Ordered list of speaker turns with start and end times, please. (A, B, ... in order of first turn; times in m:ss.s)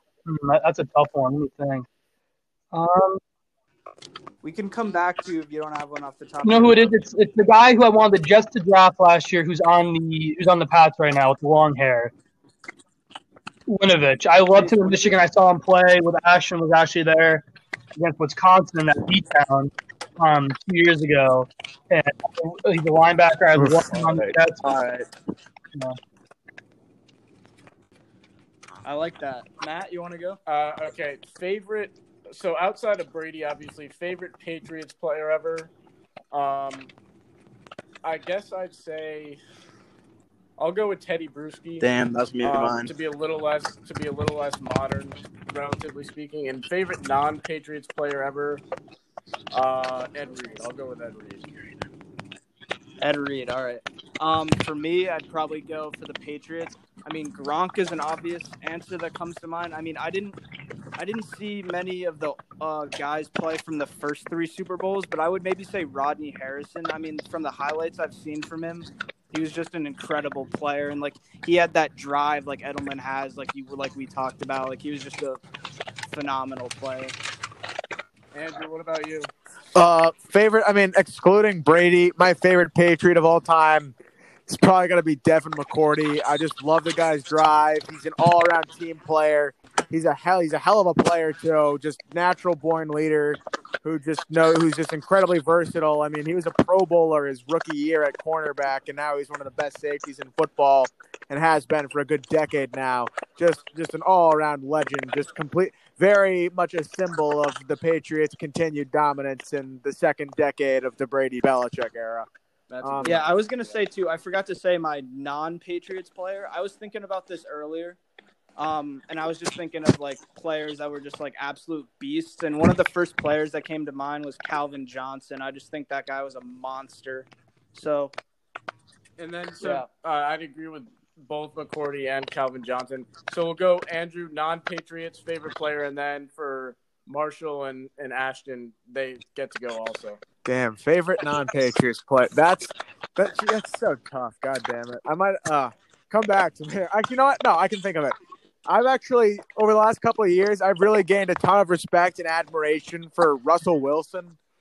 0:00.3-0:01.9 A
0:02.7-0:03.2 A
0:04.4-0:07.0 B
0:06.4-0:12.1 A
0:13.7-0:24.6 A
0:14.5-0:15.2 B
0:23.9-0:25.0 C
0:28.8-0:30.4 B
0:30.5-0:35.7 D
0:36.3-0:36.9 D
0:38.0-0:39.4 D
0:40.6-0:41.9 D
0:41.8-0:42.9 C
0:42.4-0:48.6 D
0:49.5-0:51.5 D
0:53.0-1:00.4 B
1:01.0-1:15.4 B
1:16.1-1:17.2 B
1:18.3-1:19.3 D
1:19.8-1:24.0 E
1:24.5-1:52.3 E
1:52.7-1:53.9 D
1:52.8-1:53.2 E
1:53.0-1:58.0 B
1:58.6-2:08.1 B
2:09.2-2:20.2 D
2:09.6-2:09.9 B
2:20.4-2:28.2 E
2:28.7-2:34.4 E